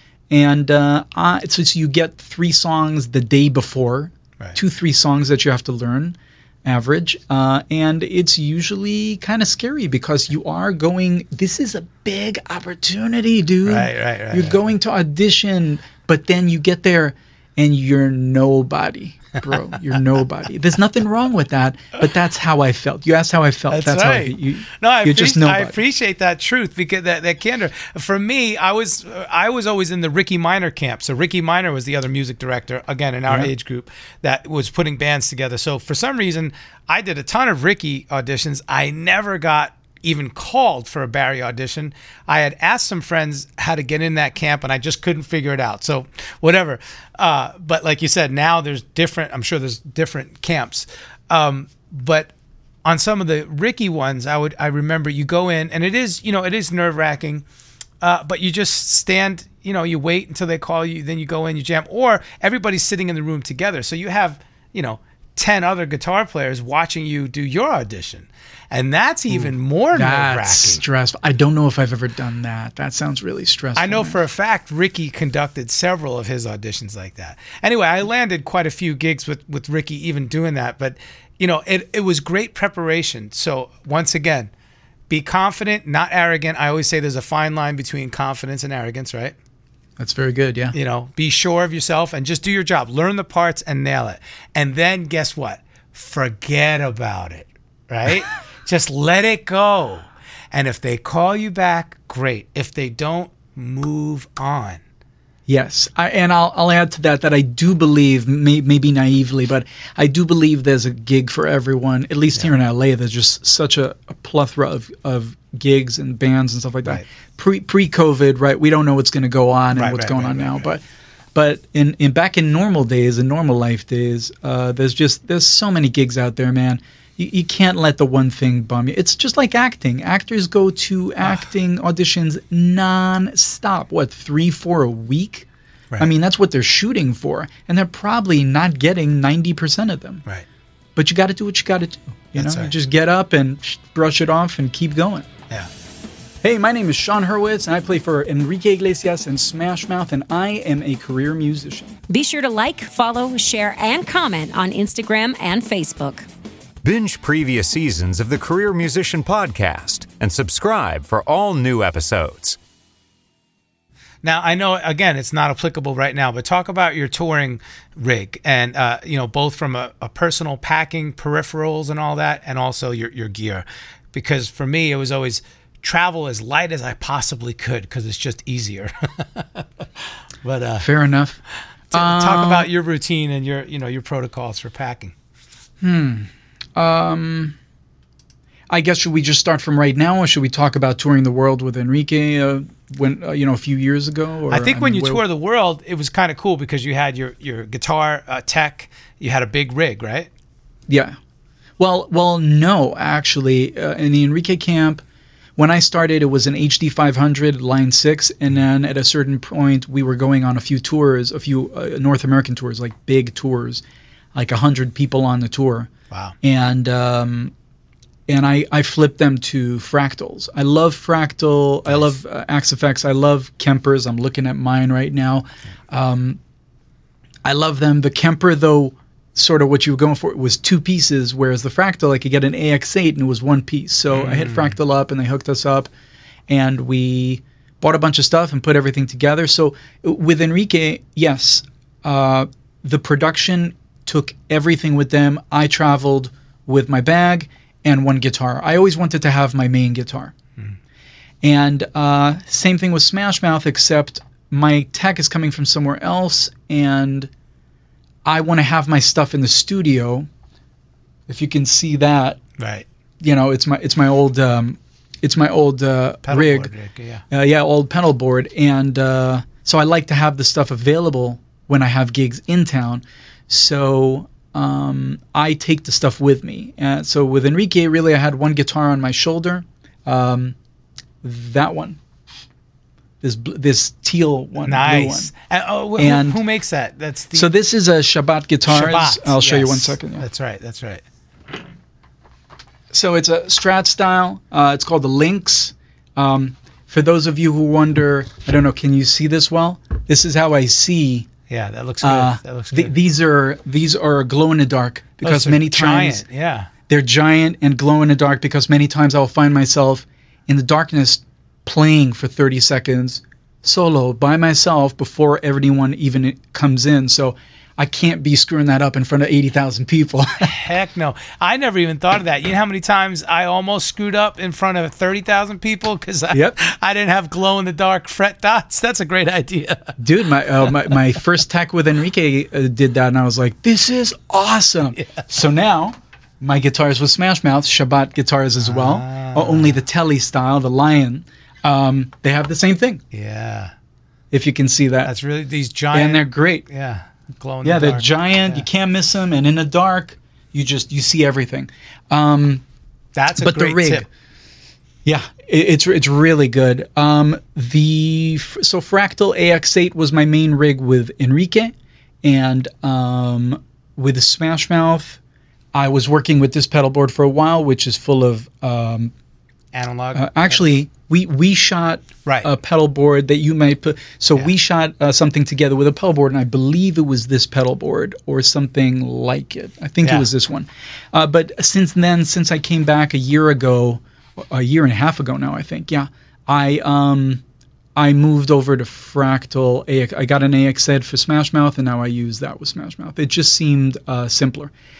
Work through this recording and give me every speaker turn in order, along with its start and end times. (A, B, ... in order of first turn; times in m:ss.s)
0:00.3-0:25.8 A
0:13.6-0:14.6 B
0:23.7-0:52.3 B
0:52.8-0:57.4 B
0:58.0-1:10.8 B
1:09.3-1:14.2 A
1:13.8-1:24.5 B
1:25.1-1:29.4 B
1:30.0-1:30.8 A
1:30.7-1:44.8 B
1:45.5-2:00.8 A
1:59.7-2:00.7 B
2:01.3-2:15.5 A
2:16.0-2:20.2 A
2:21.0-2:25.3 A
2:22.4-2:22.7 B
2:26.4-2:32.0 A
2:32.1-2:36.3 C
2:36.8-2:42.6 D
2:44.2-2:59.8 B
3:00.4-3:00.9 B
3:00.8-3:01.4 A
3:01.9-3:02.7 A
3:01.9-3:05.1 B
3:05.8-3:07.6 A
3:08.7-3:15.2 A
3:14.5-3:20.3 B
3:20.9-3:21.2 A
3:21.8-3:25.0 A
3:25.6-3:33.8 A
3:34.3-3:35.9 A
3:36.4-3:37.5 A
3:38.3-3:46.4 A
3:47.4-3:55.9 A
3:54.1-3:54.8 B
3:56.5-4:10.3 A
4:11.4-4:17.3 A
4:18.2-4:20.3 A
4:21.3-4:22.4 A
4:22.6-4:22.9 B
4:23.2-4:26.7 A
4:26.3-4:27.2 B
4:27.3-4:40.6 A
4:41.2-4:42.0 A
4:43.2-4:45.3 A
4:44.6-4:47.5 B
4:46.0-4:46.4 A
4:47.3-4:50.3 A
4:48.7-4:51.0 B
4:52.9-5:01.3 A
5:01.5-5:02.9 B
5:02.0-5:06.2 A
5:05.2-5:06.7 B
5:06.9-5:20.5 A
5:20.4-5:29.9 B
5:26.3-5:26.6 A
5:30.0-5:43.0 A
5:38.6-5:39.8 B
5:43.1-5:43.7 B
5:44.3-5:45.1 A
5:45.0-5:48.6 B
5:45.9-5:46.7 A
5:47.6-5:52.6 A
5:53.2-5:54.1 B
5:53.4-5:54.1 A
5:55.0-6:05.2 A
6:05.7-6:09.1 A
6:09.7-6:10.6 B
6:10.1-6:27.4 A
6:20.0-6:20.3 B
6:28.0-6:34.7 A